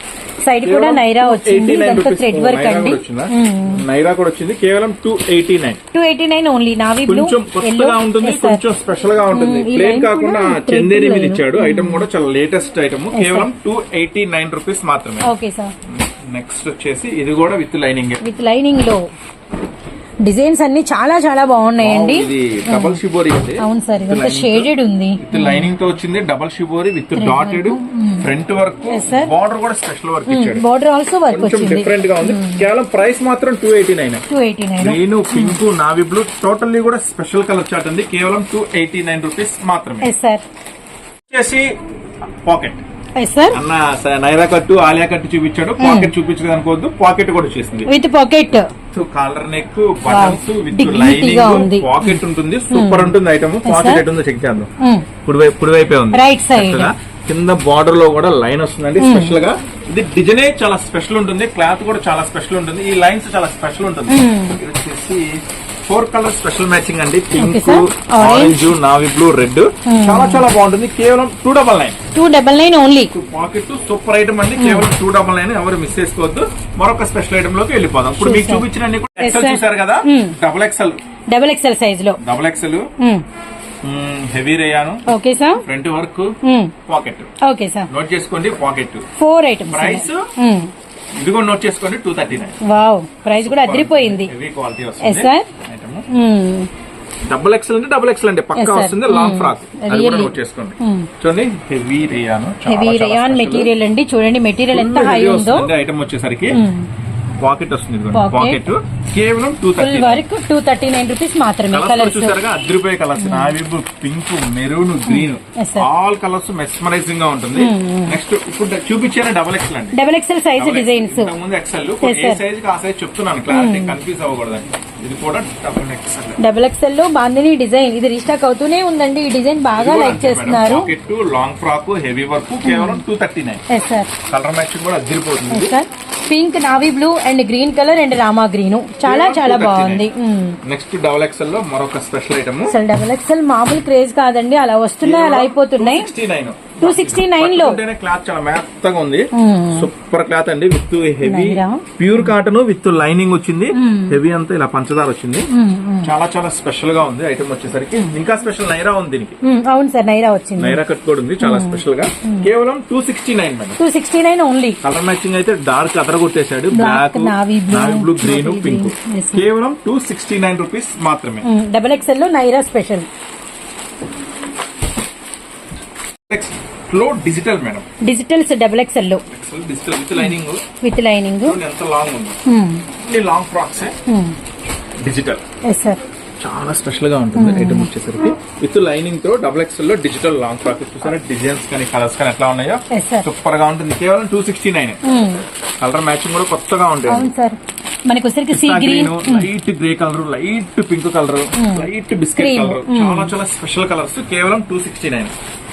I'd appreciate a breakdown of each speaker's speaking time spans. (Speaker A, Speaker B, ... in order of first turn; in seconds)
Speaker A: 0.4-3.8, 5.9-8.6, 9.3-12.1, 13.1-13.5, 15.2-15.7, 18.2-19.0, 20.2-23.0, 23.6-25.7, 27.1-28.2, 28.9-29.3, 30.3-32.6, 34.3-35.6, 40.0-40.4, 43.2-43.6, 45.8-46.1, 47.9-48.6, 50.1-52.2, 52.7-54.0, 54.8-55.1, 56.1-56.9, 59.0-59.4, 64.1-64.6, 67.4-68.7, 69.8-70.4, 72.1-73.1, 74.6-74.9, 78.2-78.7, 79.2-80.3, 81.3-82.2, 83.0-83.2, 85.1-85.6, 86.4-86.7, 87.4-87.9, 89.2-90.7, 92.6-94.3, 95.0-95.5, 96.1-96.7, 98.5-101.1, 102.7-105.7, 106.5-106.9, 108.1-108.6, 109.8-112.3, 113.2-113.5, 115.0-115.9, 117.5-118.2, 119.9-121.3, 122.0-122.4, 123.5-124.0, 126.4-130.9, 132.6-133.0, 133.7-134.1, 135.5-140.6, 142.7-146.1, 146.8-147.8, 149.3-149.9, 151.2-152.3, 153.7-154.2, 155.5-156.1, 159.4-160.8, 161.4-162.5, 163.8-164.8, 166.7-169.4, 171.4-173.1, 178.0-179.2, 180.8-181.6, 182.5-182.8, 184.1-184.3, 185.6-186.0, 187.3-187.9, 192.9-193.3, 195.0-195.4, 197.1-199.5, 201.6-203.3
Speaker B: 0.6-5.8, 7.0-15.3, 15.8-18.2, 21.8-30.6, 31.3-34.2, 34.8-40.1, 41.3-41.7, 42.4-42.8, 43.5-47.9, 48.9-54.7, 55.2-72.0, 73.1-81.0, 82.2-82.9, 83.8-85.0, 85.6-87.3, 87.9-89.0, 89.7-90.3, 91.2-92.6, 93.3-96.0, 97.3-103.7, 104.7-106.6, 107.4-110.2, 111.7-120.0, 120.6-126.4, 129.8-133.6, 134.2-135.7, 139.0-140.0, 140.6-142.7, 145.0-155.5, 156.0-159.4, 160.6-163.8, 164.8-171.5, 176.3-177.8, 179.3-180.6, 181.4-182.4, 183.0-183.9, 185.0-185.4, 186.4-195.0, 195.8-197.3, 198.5-205.3